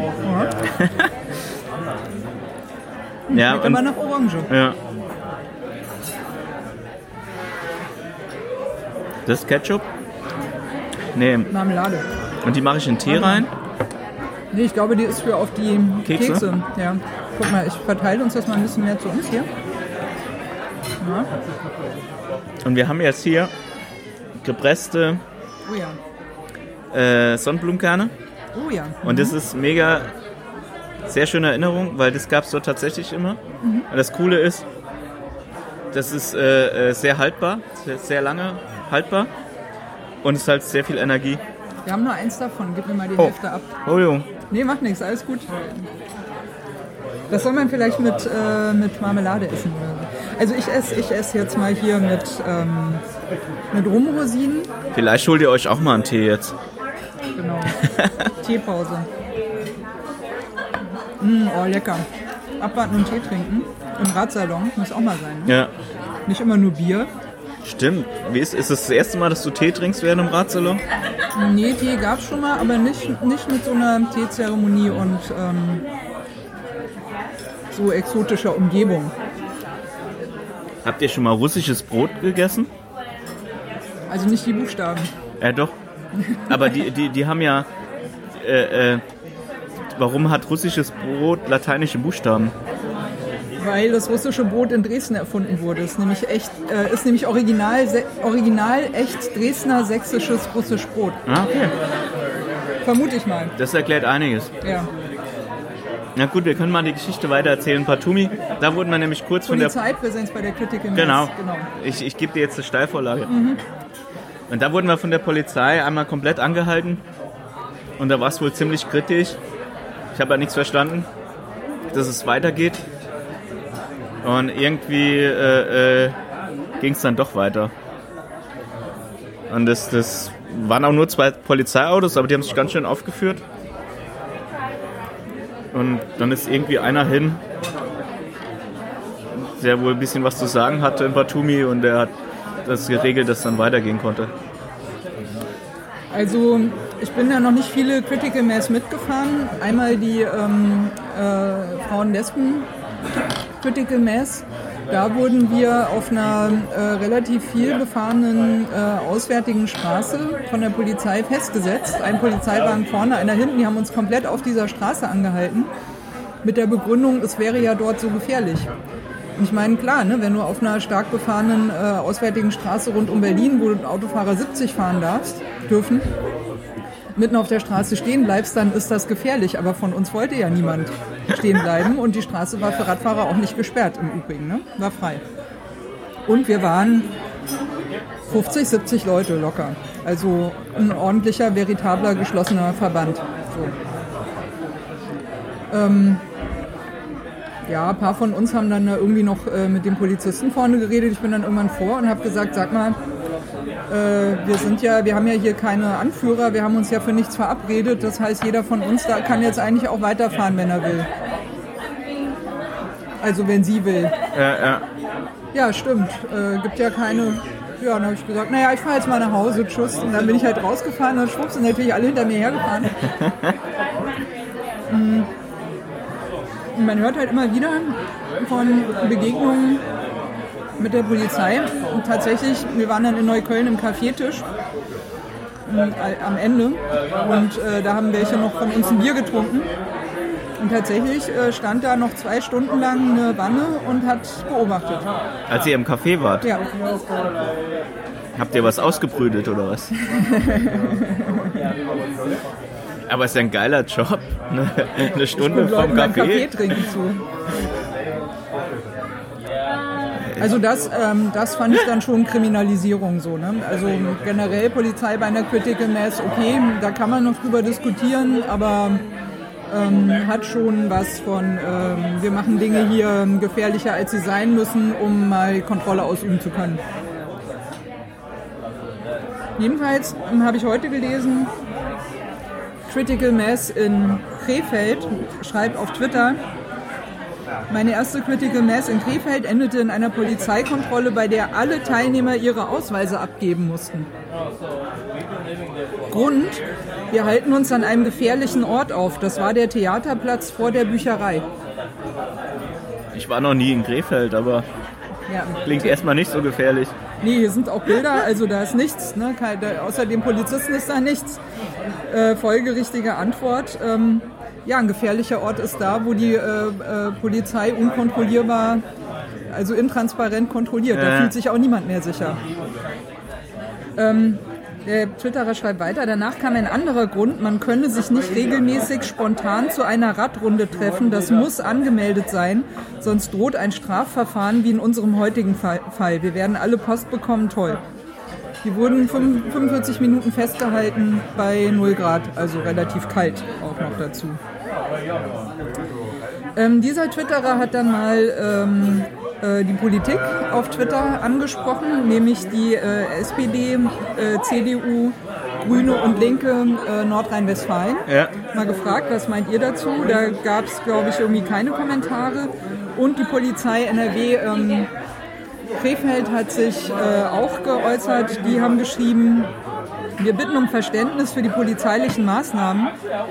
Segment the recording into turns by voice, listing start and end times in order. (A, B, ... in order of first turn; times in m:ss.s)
0:00.2-0:00.5 A
0:00.8-0:01.1 B
0:03.3-0:04.5 A
0:03.3-0:03.8 B
0:04.5-0:04.8 B
0:09.3-0:09.8 B
0:11.2-0:11.5 B
0:11.5-0:12.0 A
0:12.4-0:13.5 B
0:13.0-0:13.4 A
0:14.5-0:19.5 A
0:16.0-0:16.4 B
0:21.0-0:21.3 A
0:22.6-0:23.5 B
0:24.4-0:25.2 B
0:25.7-0:26.0 A
0:26.9-0:28.1 B
0:28.6-0:29.4 A
0:29.0-0:30.1 B
0:31.1-0:34.6 B
0:35.9-0:39.3 B
0:40.2-0:41.4 B
0:41.9-0:43.7 A
0:43.2-0:44.3 B
0:44.5-0:45.7 A
0:47.3-0:53.0 A
0:53.7-0:54.7 A
0:54.9-0:56.6 B
0:57.4-0:57.8 A
0:57.7-0:58.3 B
0:58.4-0:59.1 A
1:01.2-1:02.1 A
1:02.6-1:05.5 A
1:05.5-1:05.7 B
1:06.3-1:07.1 A
1:07.6-1:10.8 B
1:11.4-1:15.8 A
1:17.7-1:19.1 A
1:20.8-1:22.7 B
1:24.1-1:25.1 A
1:25.4-1:25.8 B
1:26.5-1:27.7 B
1:28.3-1:29.0 B
1:30.0-1:32.5 B
1:33.6-1:41.2 A
1:41.3-1:41.8 B
1:42.8-1:43.5 A
1:43.6-1:44.5 B
1:44.6-1:44.9 A
1:46.2-1:49.8 B
1:49.5-1:51.7 A
1:51.0-1:53.3 B
1:53.3-1:53.6 A
1:54.5-1:57.0 B
1:58.0-1:59.4 B
2:00.2-2:01.1 B
2:01.9-2:02.8 B
2:04.2-2:06.2 B
2:06.8-2:07.7 B
2:09.5-2:13.4 B
2:15.7-2:17.4 B
2:19.4-2:22.1 B
2:22.6-2:24.3 B
2:26.1-2:32.7 A
2:33.6-2:45.7 A
2:46.4-2:48.7 A
2:49.4-2:56.1 A
2:57.2-3:05.2 A
3:06.3-3:07.1 A
3:08.3-3:13.7 A
3:15.7-3:16.2 A
3:17.7-3:23.0 A
3:23.9-3:31.1 A
3:33.2-3:34.1 A
3:34.3-3:34.8 B
3:35.5-3:42.9 A
3:43.2-3:43.5 B
3:44.9-3:45.3 A
3:46.7-3:49.8 A
3:50.8-3:54.4 A
3:55.7-3:59.7 A
4:00.6-4:05.0 A
4:05.5-4:06.5 B
4:06.4-4:06.7 A
4:08.4-4:09.9 B
4:10.2-4:11.3 A
4:13.1-4:16.8 B
4:15.4-4:17.2 A
4:20.4-4:29.0 A
4:29.7-4:36.8 A
4:39.6-4:41.5 A
4:42.9-4:46.4 A
4:47.7-4:54.1 A
4:56.1-5:01.4 A
5:03.1-5:04.7 B
5:05.3-5:06.0 A
5:05.7-5:06.9 B
5:07.2-5:11.4 A
5:12.1-5:18.8 A
5:19.5-5:22.4 A
5:20.9-5:21.3 B
5:24.0-5:37.8 A
5:38.6-5:44.4 A
5:46.6-6:04.9 A
5:58.1-5:58.3 B
6:05.8-6:09.5 A
6:10.2-6:12.9 A